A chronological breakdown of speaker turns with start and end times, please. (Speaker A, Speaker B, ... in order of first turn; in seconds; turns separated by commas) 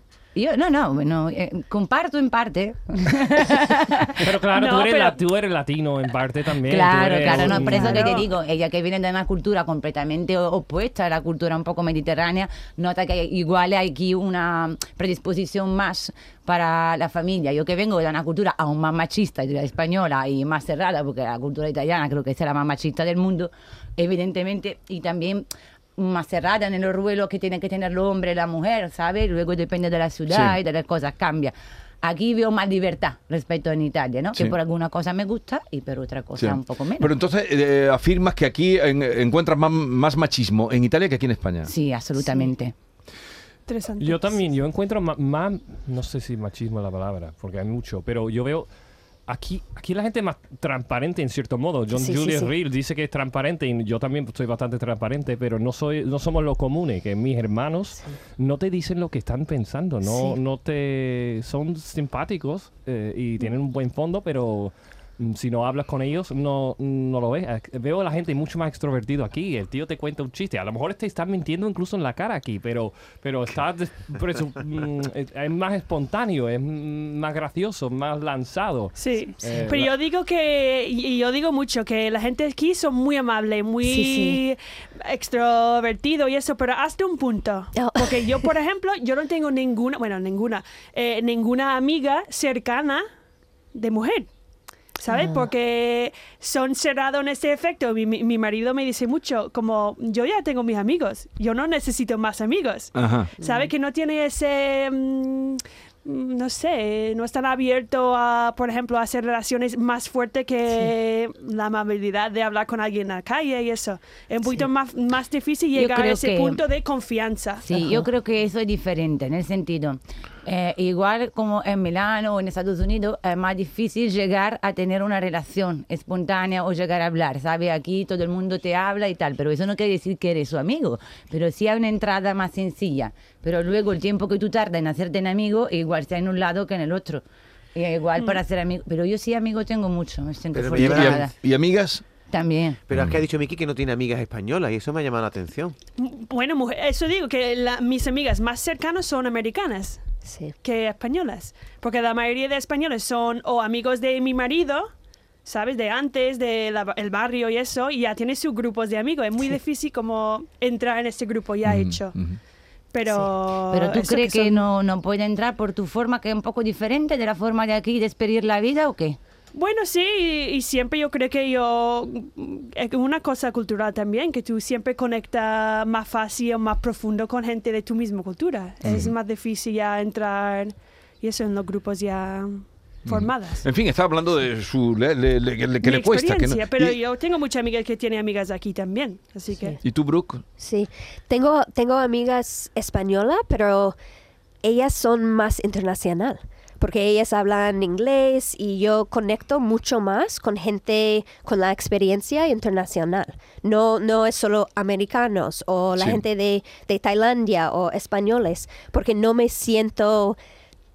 Speaker A: 0.3-4.3, Speaker B: 4.2-8.1, Speaker C: 4.5-5.2, Speaker A: 6.6-37.1, Speaker C: 7.2-8.3, Speaker D: 30.3-30.6, Speaker D: 36.4-41.7, Speaker A: 41.6-42.7, Speaker C: 43.7-44.4, Speaker B: 44.0-48.7, Speaker B: 49.3-79.9, Speaker E: 51.9-52.5, Speaker E: 60.0-60.4, Speaker C: 79.0-93.0, Speaker E: 83.8-84.4, Speaker E: 87.7-88.5, Speaker C: 93.7-94.3, Speaker C: 95.0-117.7, Speaker E: 95.1-95.5, Speaker D: 102.9-103.3, Speaker E: 103.4-103.7, Speaker A: 115.7-116.6, Speaker A: 117.6-137.2, Speaker A: 137.7-141.3, Speaker F: 140.5-141.3, Speaker D: 140.8-142.0, Speaker A: 142.3-142.8, Speaker F: 142.9-145.8, Speaker D: 142.9-143.2, Speaker C: 146.0-150.0, Speaker E: 150.2-150.5, Speaker C: 150.6-154.9, Speaker C: 155.4-162.2, Speaker D: 161.6-162.4, Speaker C: 162.9-164.6, Speaker E: 163.1-163.3, Speaker A: 163.7-169.2, Speaker C: 169.5-183.6, Speaker D: 178.8-179.1, Speaker D: 183.1-187.0, Speaker C: 185.8-189.8, Speaker D: 189.8-190.4, Speaker E: 190.6-194.0, Speaker E: 194.6-210.4, Speaker D: 205.9-206.2